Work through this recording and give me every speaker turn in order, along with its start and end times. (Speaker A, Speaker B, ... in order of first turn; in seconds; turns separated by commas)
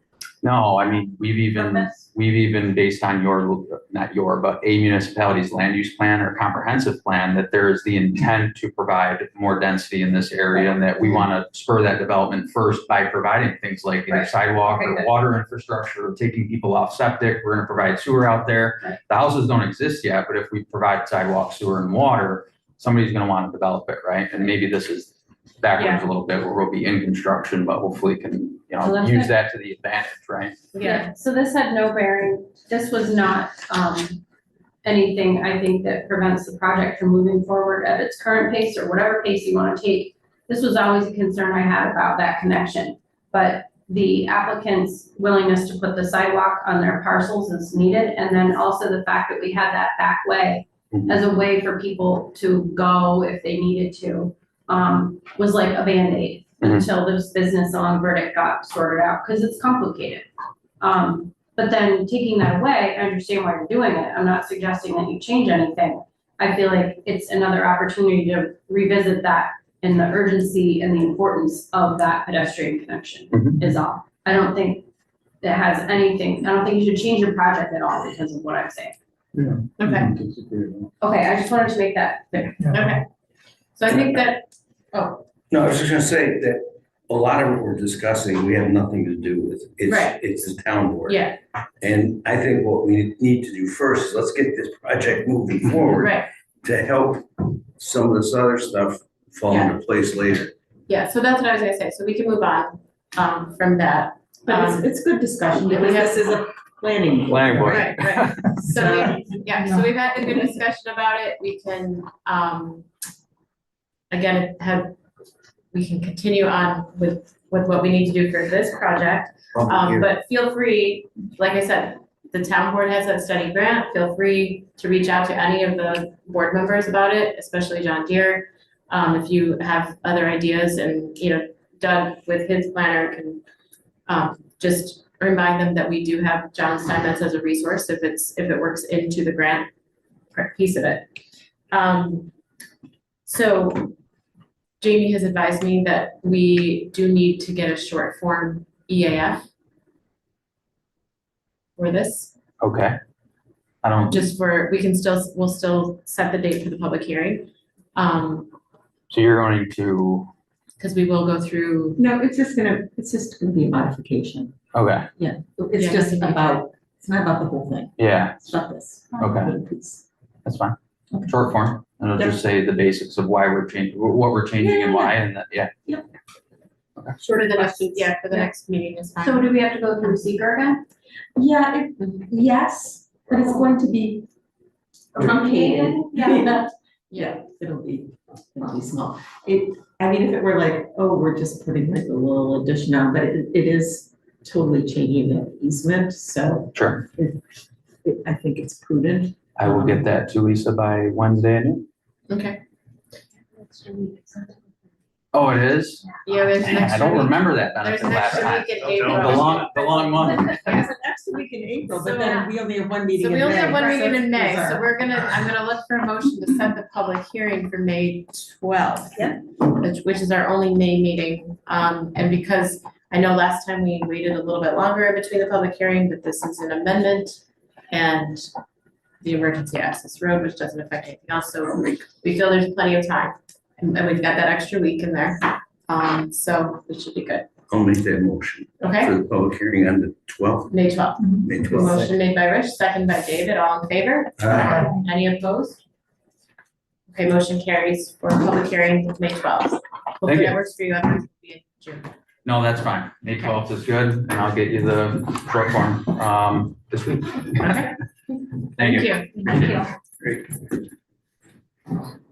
Speaker A: 0.4-30.6, Speaker B: 1.5-2.1, Speaker B: 14.1-15.1, Speaker B: 28.8-29.3, Speaker C: 30.7-31.1, Speaker B: 30.8-34.2, Speaker B: 34.8-60.3, Speaker B: 60.8-74.8, Speaker A: 73.3-73.6, Speaker B: 75.4-79.0, Speaker C: 79.8-80.1, Speaker A: 79.9-80.4, Speaker B: 81.0-82.5, Speaker C: 82.7-83.0, Speaker C: 83.8-85.2, Speaker D: 85.5-91.2, Speaker C: 89.9-90.2, Speaker C: 91.1-91.4, Speaker D: 91.8-100.5, Speaker C: 96.0-96.3, Speaker C: 100.9-104.9, Speaker E: 104.5-107.9, Speaker C: 105.5-106.2, Speaker A: 107.3-108.4, Speaker C: 107.7-112.9, Speaker E: 108.6-109.9, Speaker C: 114.1-115.0, Speaker C: 115.7-133.4, Speaker D: 119.5-120.1, Speaker C: 134.1-139.7, Speaker C: 140.3-141.1, Speaker C: 141.7-142.3, Speaker C: 143.2-143.9, Speaker C: 144.8-149.4, Speaker C: 151.8-152.3, Speaker A: 152.6-152.9, Speaker A: 153.8-154.2, Speaker C: 154.1-158.5, Speaker A: 159.1-160.3, Speaker C: 160.8-162.0, Speaker E: 161.9-164.6, Speaker A: 164.7-165.1, Speaker E: 165.2-170.0, Speaker C: 165.8-166.6, Speaker A: 168.0-168.6, Speaker A: 169.2-169.5, Speaker A: 170.4-175.7, Speaker E: 174.6-175.2, Speaker B: 177.2-178.5, Speaker C: 177.3-180.3, Speaker B: 179.2-180.8, Speaker E: 181.3-184.3, Speaker C: 182.0-182.3, Speaker E: 185.1-197.4, Speaker B: 185.1-186.6, Speaker C: 187.1-187.4, Speaker A: 196.7-197.1, Speaker E: 198.0-200.1, Speaker A: 199.6-201.8, Speaker C: 202.3-202.6, Speaker A: 205.3-206.0, Speaker C: 206.2-210.9, Speaker A: 206.6-210.7, Speaker E: 210.4-214.8, Speaker C: 212.0-212.5, Speaker C: 213.2-228.5, Speaker B: 213.5-214.8, Speaker C: 229.2-237.5, Speaker D: 237.7-240.8, Speaker C: 238.8-239.1, Speaker C: 240.7-245.8, Speaker D: 241.4-242.1, Speaker D: 244.4-244.8, Speaker C: 247.1-252.1, Speaker A: 250.2-250.6, Speaker A: 252.4-257.8, Speaker C: 257.6-257.9, Speaker A: 258.8-259.8, Speaker C: 258.8-259.4, Speaker B: 259.4-259.9, Speaker D: 260.2-260.6